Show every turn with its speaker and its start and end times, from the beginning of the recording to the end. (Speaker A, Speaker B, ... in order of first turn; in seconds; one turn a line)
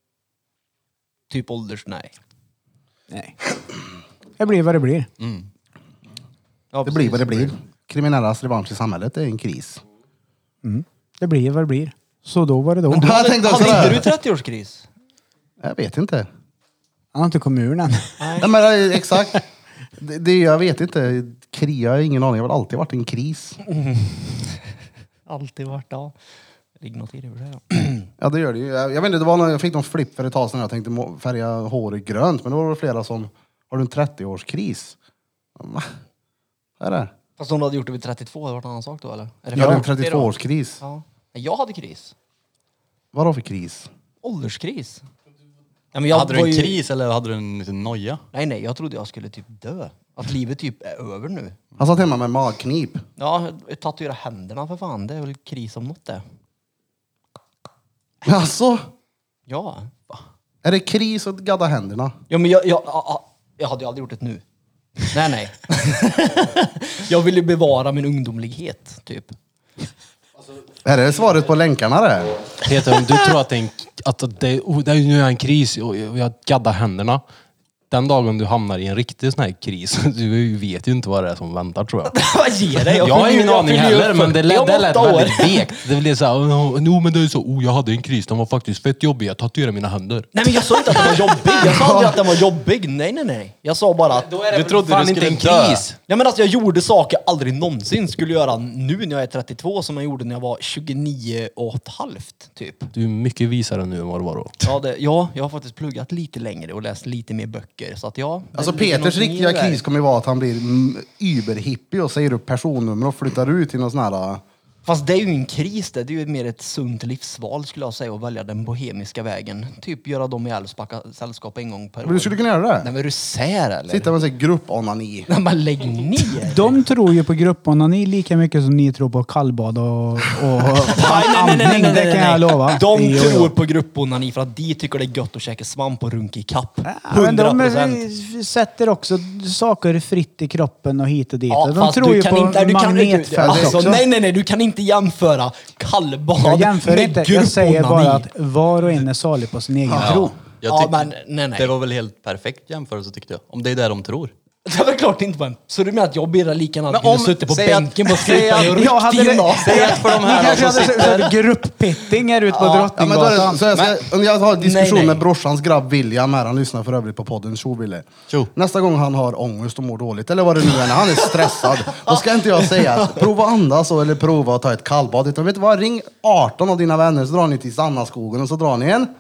Speaker A: 1.3-2.1
Speaker B: 3.1-3.5
Speaker B: 4.4-5.1
Speaker C: 5.2-5.5
Speaker A: 6.7-7.5
Speaker D: 6.8-9.8
Speaker B: 10.6-13.2
Speaker A: 12.9-14.9
Speaker D: 12.9-14.1
Speaker D: 15.6-16.3
Speaker B: 17.1-18.4
Speaker A: 18.2-18.5
Speaker D: 18.4-19.4
Speaker D: 20.0-23.6
Speaker A: 23.7-24.6
Speaker A: 25.3-26.1
Speaker A: 26.8-28.1
Speaker D: 28.2-35.0
Speaker D: 35.6-35.9
Speaker D: 36.8-37.1
Speaker A: 37.4-42.1
Speaker D: 39.5-40.8
Speaker D: 43.1-43.9
Speaker A: 44.2-45.0
Speaker A: 45.9-46.8
Speaker C: 46.1-48.2
Speaker A: 48.3-51.6
Speaker D: 51.8-53.0
Speaker A: 53.2-56.2
Speaker D: 58.2-58.9
Speaker A: 59.5-59.9
Speaker D: 60.6-62.2
Speaker A: 62.3-64.4
Speaker A: 65.0-69.3
Speaker D: 70.8-72.3
Speaker E: 72.6-77.2
Speaker E: 77.9-82.1
Speaker A: 82.1-85.8
Speaker E: 82.8-91.1
Speaker A: 90.3-94.4
Speaker D: 91.6-92.2
Speaker E: 94.3-96.0
Speaker C: 94.4-95.9
Speaker A: 96.1-102.9
Speaker E: 102.9-104.7
Speaker A: 104.6-109.8
Speaker D: 108.5-114.4
Speaker A: 114.8-124.1
Speaker D: 122.0-122.9
Speaker D: 123.9-125.3
Speaker A: 125.3-126.8
Speaker B: 126.4-133.5
Speaker A: 130.9-138.0
Speaker B: 136.9-144.0
Speaker A: 141.5-148.3
Speaker D: 143.4-144.0
Speaker B: 146.4-150.4
Speaker D: 149.9-150.1
Speaker C: 150.0-154.3
Speaker A: 150.7-151.7
Speaker A: 154.7-160.2
Speaker C: 156.9-161.4
Speaker B: 158.5-163.6
Speaker A: 162.5-162.9
Speaker D: 162.9-179.1
Speaker C: 163.7-164.0
Speaker A: 164.6-165.2
Speaker A: 171.2-173.2